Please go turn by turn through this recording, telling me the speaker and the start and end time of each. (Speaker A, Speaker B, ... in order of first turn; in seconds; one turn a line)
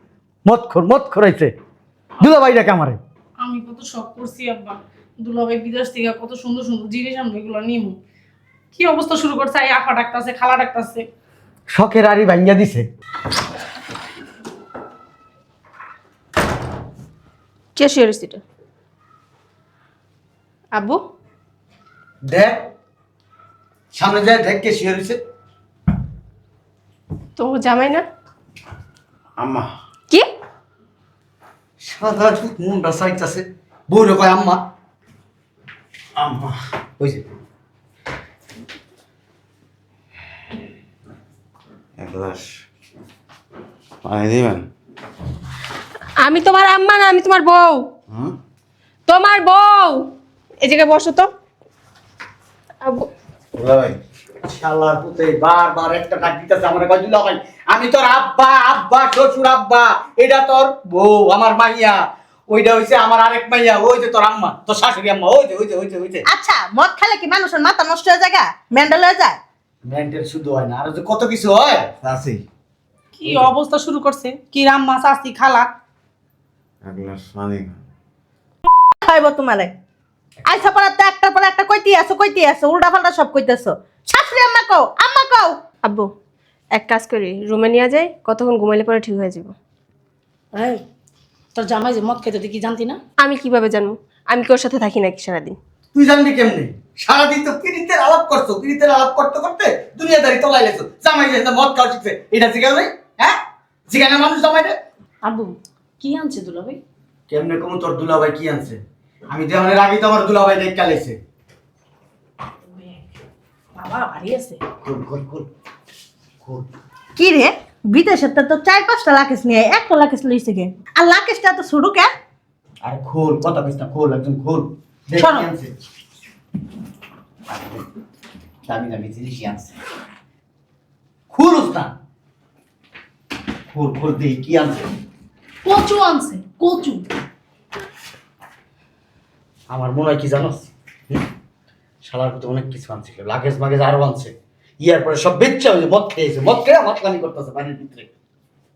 Speaker A: 0.5-1.5
Speaker A: 2.2-3.0
Speaker B: 3.4-8.0
Speaker B: 8.7-11.0
Speaker A: 11.7-12.8
Speaker C: 17.8-18.4
Speaker C: 20.8-21.0
Speaker A: 22.3-22.6
Speaker A: 23.9-25.2
Speaker C: 27.4-28.0
Speaker D: 29.4-29.7
Speaker A: 31.8-34.6
Speaker D: 36.2-36.5
Speaker D: 42.0-42.5
Speaker D: 44.0-44.6
Speaker C: 46.2-47.8
Speaker C: 49.1-50.0
Speaker C: 50.6-51.3
Speaker C: 52.8-53.1
Speaker D: 53.6-54.0
Speaker A: 54.4-66.2
Speaker E: 66.3-69.4
Speaker A: 69.8-71.9
Speaker D: 72.0-72.4
Speaker B: 73.2-75.7
Speaker D: 76.8-77.8
Speaker E: 79.0-79.7
Speaker E: 80.5-85.6
Speaker C: 86.8-89.5
Speaker B: 90.5-90.8
Speaker B: 91.5-93.0
Speaker C: 93.2-95.6
Speaker A: 95.9-103.4
Speaker A: 103.9-104.7
Speaker B: 105.2-106.8
Speaker A: 107.3-108.8
Speaker A: 109.3-111.2
Speaker B: 113.8-114.6
Speaker A: 114.8-115.5
Speaker E: 117.2-122.1
Speaker A: 122.8-125.7
Speaker B: 125.2-125.5
Speaker A: 127.5-127.8
Speaker A: 128.7-129.7
Speaker A: 131.3-131.9
Speaker A: 133.7-134.8
Speaker B: 135.6-137.0
Speaker A: 139.7-141.2
Speaker A: 142.1-148.1